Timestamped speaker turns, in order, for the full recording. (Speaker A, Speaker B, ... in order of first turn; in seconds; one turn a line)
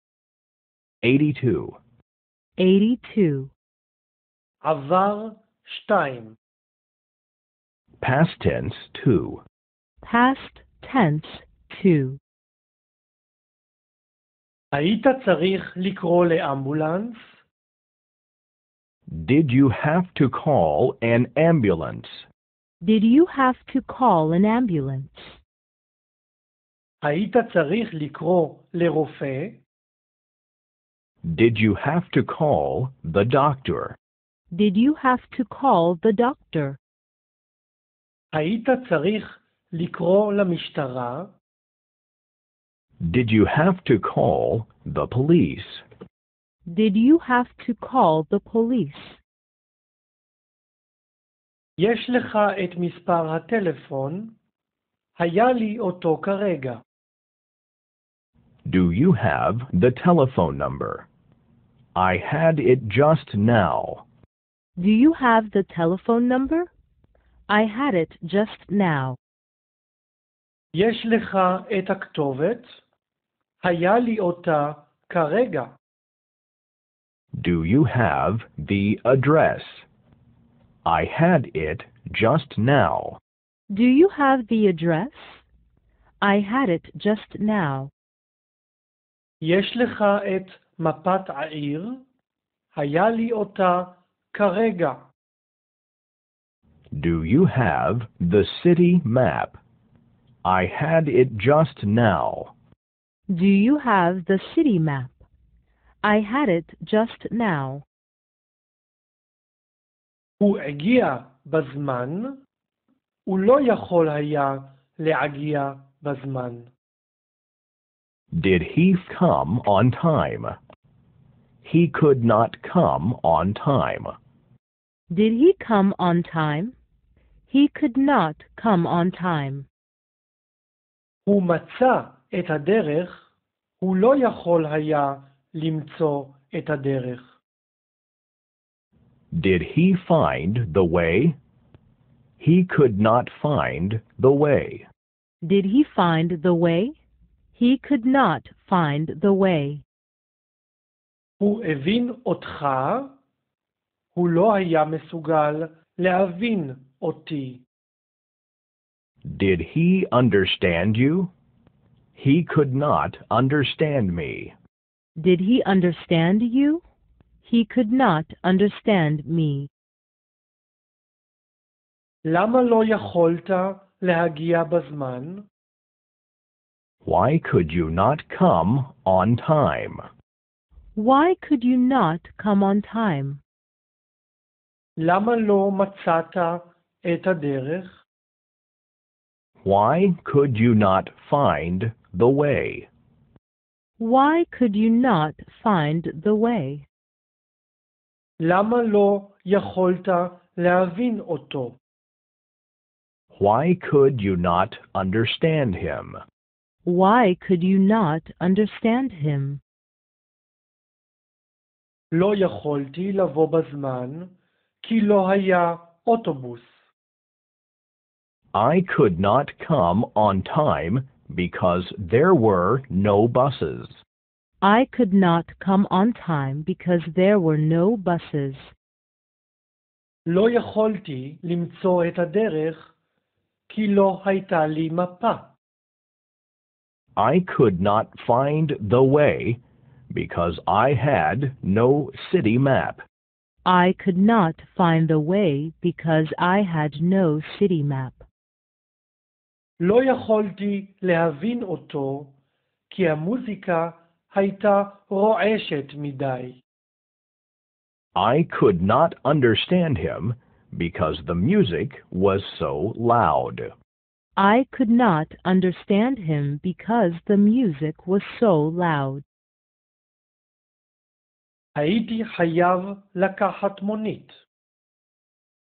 Speaker A: 1.0-1.8
Speaker B: 2.6-3.5
Speaker C: 4.6-6.4
Speaker A: 8.0-9.4
Speaker B: 10.0-12.2
Speaker C: 14.7-17.2
Speaker A: 19.1-22.2
Speaker B: 22.8-25.4
Speaker C: 27.0-29.6
Speaker A: 31.2-34.0
Speaker B: 34.5-36.8
Speaker C: 38.3-41.3
Speaker A: 43.0-45.8
Speaker B: 46.7-49.2
Speaker C: 51.8-54.3
Speaker C: 55.2-56.8
Speaker A: 58.7-61.1
Speaker A: 62.0-64.0
Speaker B: 64.8-66.7
Speaker B: 67.5-69.2
Speaker C: 70.7-72.8
Speaker C: 73.6-75.8
Speaker A: 77.4-79.9
Speaker A: 80.9-83.2
Speaker B: 83.7-85.4
Speaker B: 86.2-87.9
Speaker C: 89.4-92.0
Speaker C: 92.7-95.1
Speaker A: 96.9-99.6
Speaker A: 100.5-102.5
Speaker B: 103.3-105.2
Speaker B: 106.0-107.8
Speaker C: 110.4-112.4
Speaker C: 113.3-116.7
Speaker A: 118.3-120.6
Speaker A: 121.6-124.2
Speaker B: 125.1-126.7
Speaker B: 127.5-129.7
Speaker C: 131.3-133.2
Speaker C: 133.8-137.3
Speaker A: 139.3-141.4
Speaker A: 142.4-144.9
Speaker B: 145.4-147.0
Speaker B: 147.6-149.8
Speaker C: 151.4-153.1
Speaker C: 154.2-157.6
Speaker A: 159.2-161.3
Speaker A: 162.2-164.6
Speaker B: 165.2-166.8
Speaker B: 167.4-169.7
Speaker C: 172.2-175.5
Speaker A: 177.1-180.1
Speaker B: 181.0-183.4
Speaker C: 185.0-188.0
Speaker A: 189.6-192.9
Speaker B: 194.0-196.8
Speaker C: 198.4-201.8
Speaker A: 203.3-206.2
Speaker B: 206.9-209.6
Speaker C: 212.1-216.7
Speaker A: 218.5-224.0
Speaker B: 224.6-228.7
Speaker C: 230.3-232.8
Speaker C: 233.7-235.5
Speaker A: 237.2-243.0
Speaker B: 243.7-248.2
Speaker C: 249.8-252.3
Speaker C: 252.9-256.6
Speaker A: 258.1-263.7
Speaker B: 264.4-269.2
Speaker C: 271.8-274.4